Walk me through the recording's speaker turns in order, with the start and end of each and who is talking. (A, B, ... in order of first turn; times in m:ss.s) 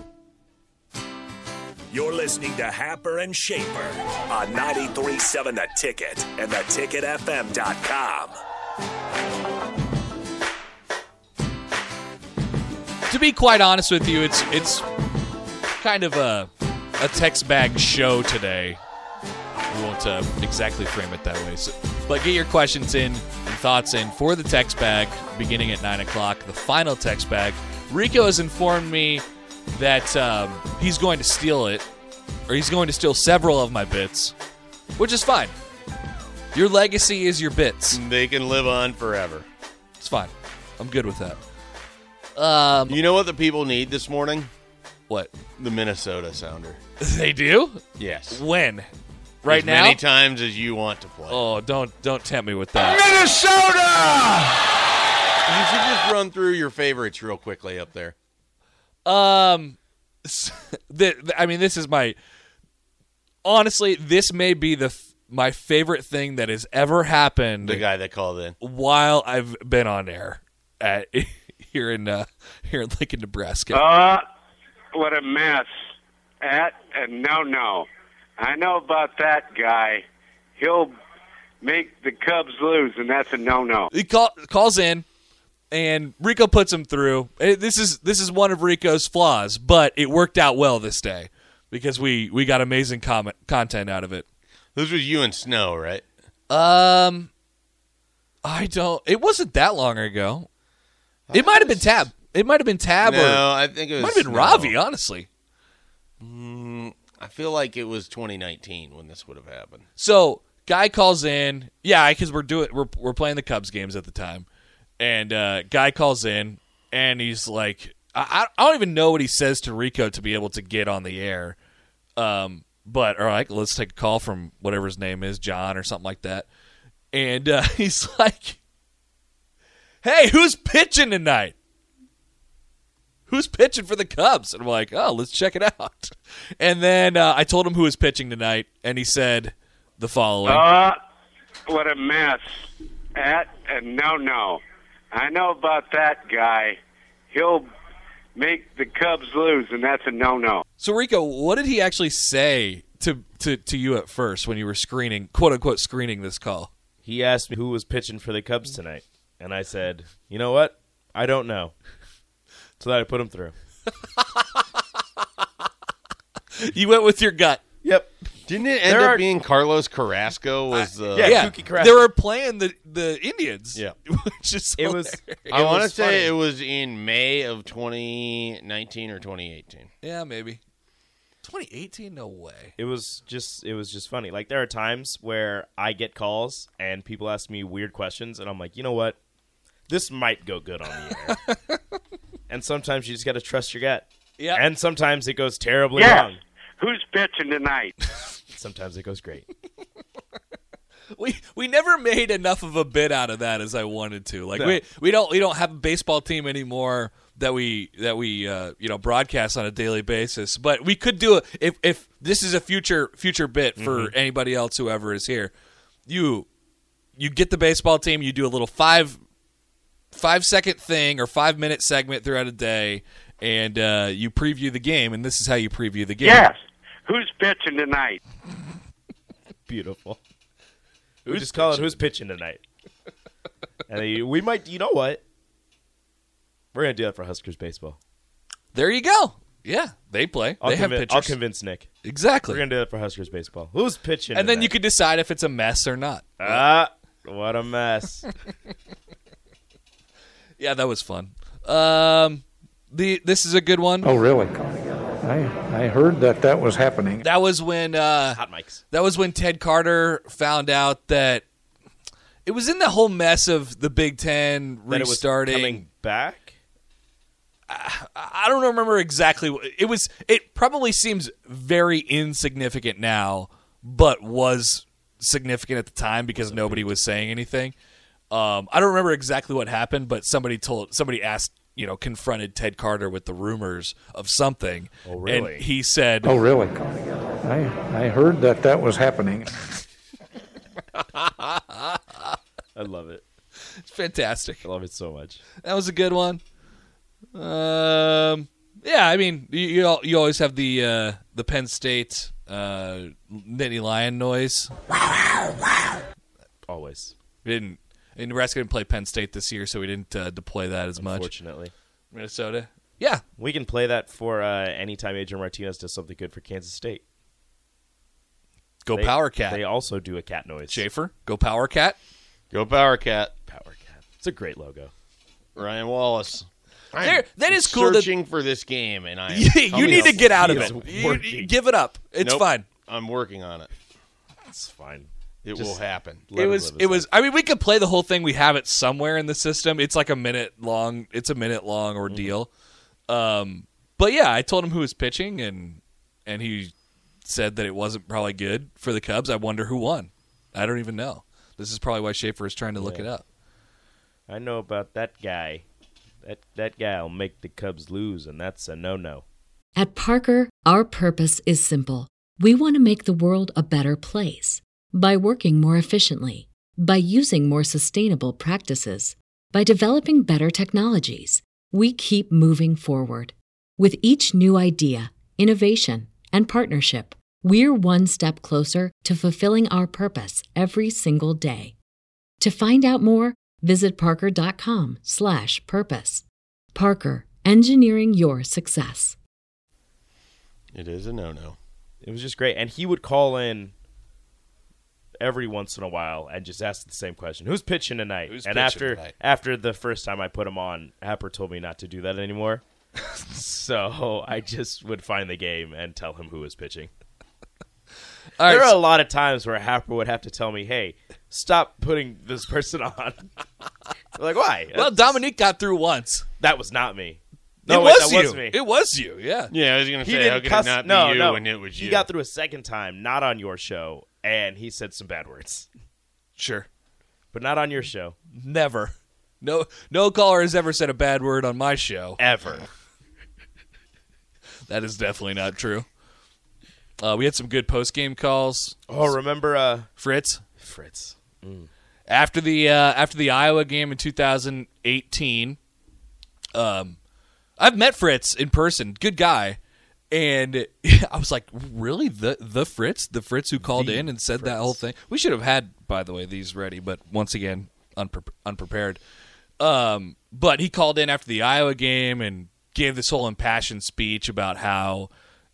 0:01.9-0:08.3 A
0:13.1-0:14.9 B
0:15.8-0:18.8 B
0:19.7-0:31.8 B
0:32.5-0:34.3 B
0:35.0-0:35.5 B
0:36.5-0:38.0 B
0:37.9-0:39.4 C
0:40.0-0:41.4 B
0:42.4-0:43.0 B
0:42.9-0:44.5 C
0:45.1-0:45.3 B
0:45.6-0:46.8 C
0:47.0-0:48.9 B
0:48.0-0:48.4 C
0:49.4-0:50.0 B
0:49.5-0:51.4 C
0:51.3-0:53.0 B
0:53.0-0:54.5 C
0:55.4-0:58.1 C
0:59.0-1:02.2 B
1:03.4-1:07.8 B
1:07.6-1:08.6 C
1:08.6-1:13.8 B
1:13.7-1:14.2 D
1:14.9-1:15.7 D
1:16.4-1:20.0 D
1:20.6-1:20.9 D
1:21.6-1:23.9 D
1:23.9-1:25.0 B
1:25.7-1:34.2 B
1:34.7-1:36.0 C
1:36.5-1:37.3 B
1:38.4-1:40.5 B
1:41.3-1:41.9 C
1:41.3-1:45.3 B
1:43.0-1:44.8 C
1:46.2-1:49.8 C
1:50.0-1:54.5 B
1:55.0-2:01.6 B
2:02.2-2:06.5 B
2:07.1-2:08.6 B
2:10.0-2:11.5 B
2:13.3-2:20.6 B
2:20.5-2:21.0 D
2:21.7-2:22.5 D
2:23.1-2:24.6 D
2:25.1-2:26.8 D
2:27.3-2:27.7 D
2:28.4-2:30.6 D
2:30.8-2:36.7 B
2:37.0-2:41.7 E
2:42.8-2:43.5 E
2:46.6-2:47.6 B
2:47.8-2:48.2 E
2:48.5-2:51.4 C
2:48.8-2:49.2 E
2:50.7-2:55.6 B
2:51.1-2:52.1 E
2:54.8-2:56.3 E
2:55.5-2:59.9 C
3:00.0-3:00.6 B
3:01.4-3:02.7 B
3:02.8-3:09.2 E
3:09.9-3:11.4 E
3:12.5-3:16.4 E
3:14.4-3:14.6 B
3:15.9-3:17.9 D
3:18.5-3:19.5 E
3:21.1-3:35.5 B
3:24.5-3:24.8 E
3:33.8-3:34.1 E
3:36.1-3:36.5 B
3:37.2-3:39.2 B
3:40.1-3:46.5 B
3:46.2-3:48.2 D
3:49.7-3:50.2 E
3:51.2-3:52.6 E
3:51.2-3:52.0 B
3:53.9-3:55.2 E
3:56.7-3:58.0 E
3:58.7-4:01.4 B
4:00.6-4:01.9 E
4:02.0-4:02.6 B
4:02.5-4:04.7 E
4:04.3-4:06.6 B
4:06.4-4:08.2 E
4:10.6-4:14.1 B
4:14.0-4:17.2 F
4:17.2-4:18.4 B
4:18.3-4:18.8 E
4:18.9-4:21.4 B
4:22.4-4:25.8 B
4:24.9-4:26.5 E
4:27.7-4:37.7 B
4:36.3-4:37.0 E
4:38.3-4:46.3 B
4:45.0-4:45.6 E
4:46.2-4:49.5 F
4:51.4-4:52.0 B
4:52.8-4:53.2 E
4:53.8-4:54.6 B
4:54.6-4:55.4 E
4:55.6-4:56.4 B
4:57.3-5:04.7 B
5:06.7-5:07.1 E
5:07.4-5:11.3 B
5:11.0-5:11.7 E
5:12.1-5:13.2 B
5:13.4-5:17.0 E
5:18.8-5:19.6 B
5:18.9-5:20.8 E
5:20.7-5:22.0 B
5:22.5-5:23.3 C
5:23.5-5:24.9 E
5:25.6-5:30.9 C
5:27.0-5:28.1 B
5:29.3-5:32.7 B
5:29.7-5:31.5 E
5:32.2-5:33.7 C
5:34.5-5:37.1 E
5:35.4-5:36.4 C
5:36.3-5:42.5 B
5:42.0-5:42.4 E
5:43.1-5:46.7 B
5:47.2-5:53.2 B
5:52.7-5:53.1 E
5:54.3-5:55.6 E
5:56.2-5:59.2 E
5:59.8-6:21.7 G
6:22.4-6:29.2 G
6:30.7-6:31.6 C
6:32.0-6:33.7 E
6:35.2-6:42.6 E
6:38.3-6:39.1 B
6:43.3-6:46.9 E
6:48.4-6:48.8 B
6:48.4-6:53.3 E
6:54.2-6:55.2 E
6:54.7-6:56.2 B
6:56.4-6:58.6 E
6:57.6-6:59.5 B
6:59.5-7:02.1 C
7:00.0-7:05.7 E
7:06.4-7:06.7 B
7:07.3-7:08.2 E
7:08.4-7:12.2 B
7:12.2-7:12.7 E
7:14.7-7:15.9 B
7:17.0-7:19.1 B
7:18.9-7:19.9 E
7:20.0-7:20.4 B
7:20.6-7:21.7 E
7:22.1-7:25.6 B
7:26.5-7:27.0 B
7:27.6-7:29.6 B
7:30.1-7:39.0 B
7:33.6-7:34.8 E
7:39.6-7:45.1 B